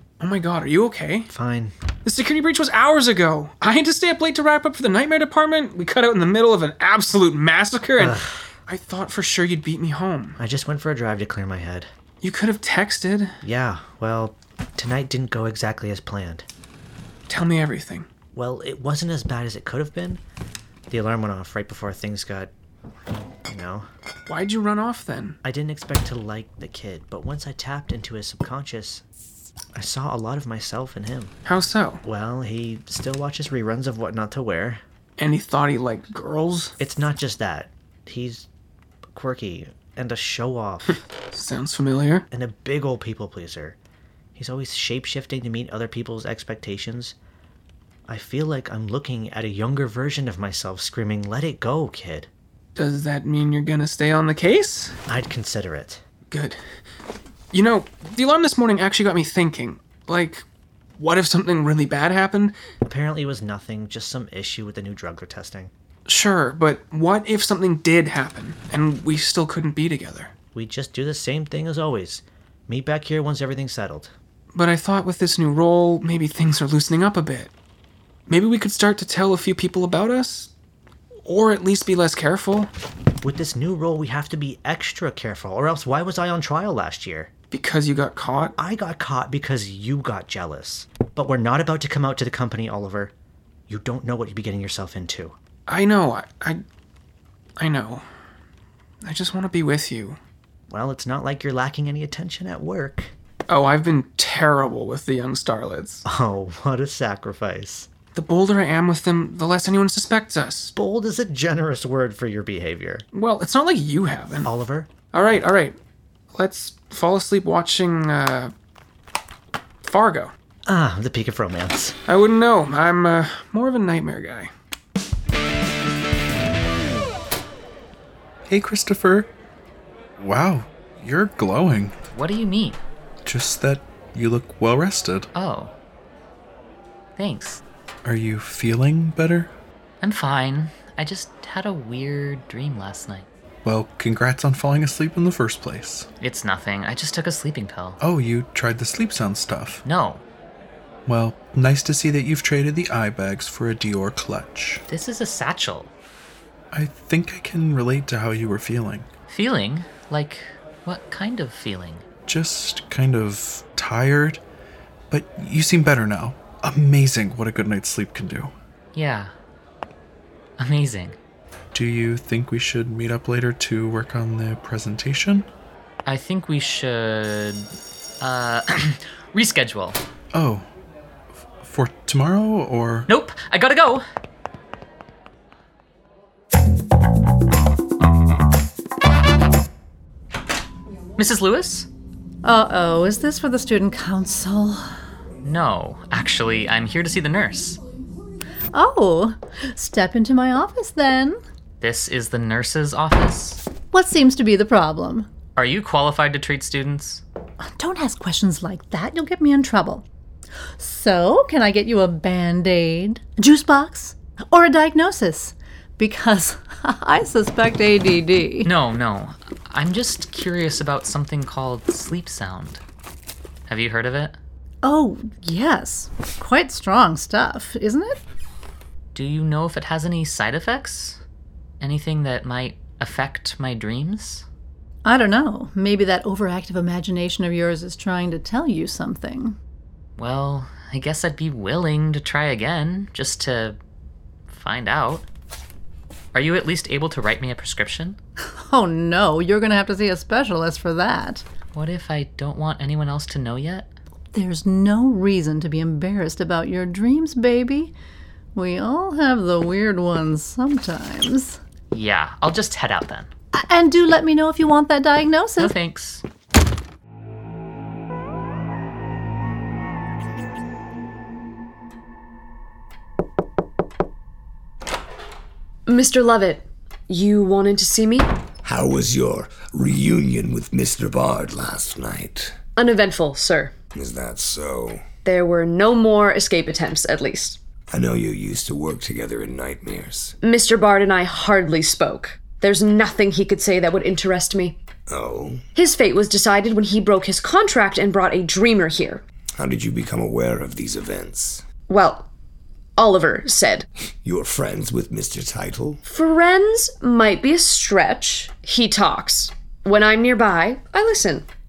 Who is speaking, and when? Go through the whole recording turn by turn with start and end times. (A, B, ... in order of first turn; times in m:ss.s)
0:00.2-0:01.3 A
0:01.3-0:01.7 B
0:02.0-0:10.4 A
0:08.0-0:08.5 B
0:10.4-0:11.9 B
0:12.2-0:13.4 A
0:13.4-0:16.4 B
0:17.3-0:18.1 A
0:18.3-0:20.2 B
0:20.9-0:22.5 B
0:23.5-0:23.9 B
0:24.2-0:25.4 A
0:25.4-0:29.0 B
0:29.7-0:31.3 B
0:31.4-0:32.0 A
0:32.0-0:34.8 B
0:35.2-0:36.8 A
0:36.8-0:38.5 B
0:39.1-0:41.0 B
0:40.8-0:42.3 A
0:42.3-0:43.8 B
0:44.4-0:47.2 B
0:48.1-0:52.3 B
0:52.7-0:55.0 A
0:55.1-0:56.0 B
0:56.3-0:56.6 A
0:57.5-1:00.4 A
1:01.0-1:02.6 A
1:02.8-1:05.7 B
1:06.0-1:10.3 A
1:10.5-1:14.1 B
1:14.5-1:17.5 A
1:18.3-1:20.5 A
1:21.2-1:22.7 A
1:23.2-1:27.3 B
1:27.5-1:28.6 A
1:28.6-1:33.1 B
1:33.7-1:35.3 B
1:35.7-1:36.6 A
1:37.6-1:38.1 A
1:39.0-1:40.2 A
1:40.7-1:43.1 B
1:43.5-1:46.0 A
1:46.0-1:47.9 B
1:48.1-1:50.7 A
1:50.7-1:53.0 B
1:53.1-1:54.5 A
1:54.4-1:54.9 B
1:55.1-1:55.8 A
1:56.3-1:58.5 A
1:59.8-2:00.3 A
2:00.7-2:02.0 B
2:02.0-2:04.5 A
2:08.5-2:09.3 C
2:10.2-2:12.0 C
2:12.1-2:12.8 D
2:13.2-2:15.3 C
2:15.3-2:15.7 D
2:17.2-2:17.6 D
2:18.0-2:19.5 C
2:20.0-2:23.2 D
2:23.6-2:26.1 C
2:26.2-2:28.0 D
2:28.0-2:29.8 C
2:29.8-2:30.2 D
2:31.0-2:34.8 C
2:34.9-2:35.9 D
2:36.7-2:39.1 C
2:39.3-2:42.0 D
2:42.3-2:44.4 C
2:45.1-2:48.5 C
2:48.9-2:49.3 D
2:50.6-2:51.2 D
2:51.7-2:55.5 C
2:56.0-2:57.7 D
2:58.2-3:00.0 D
3:00.3-3:00.6 C
3:01.5-3:03.1 C
3:03.1-3:04.0 D
3:11.2-3:11.9 D
3:12.4-3:14.8 E
3:15.4-3:17.8 D
3:18.7-3:21.4 E
3:21.8-3:23.6 D
3:23.9-3:25.3 E
3:25.5-3:27.2 D
3:27.6-3:30.0 E
3:30.8-3:38.7 E
3:38.6-3:42.8 D
3:43.7-3:44.4 D
3:44.8-3:48.2 E
3:49.1-3:51.2 D
3:51.8-3:54.4 D
3:55.0-3:59.6 E
4:00.2-4:03.8 D
4:04.5-4:05.2 D
4:06.3-4:08.2 D
4:08.6-4:11.4 E
4:11.7-4:13.9 D
4:14.3-4:17.9 E
4:18.5-4:21.6 E
4:21.9-4:23.3 D
4:23.6-4:25.7 E
4:25.6-4:26.2 D
4:35.9-4:38.2 F
4:38.6-4:42.6 G
4:42.8-4:43.7 F
4:43.9-4:45.0 G
4:45.2-4:47.6 F
4:47.9-4:50.3 G
4:50.4-4:54.8 F
4:55.1-4:55.6 G
4:55.7-4:59.2 F
4:59.6-5:01.6 G
5:01.9-5:02.2 F
5:03.0-5:03.9 F
5:04.2-5:06.0 G
5:06.0-5:11.4 F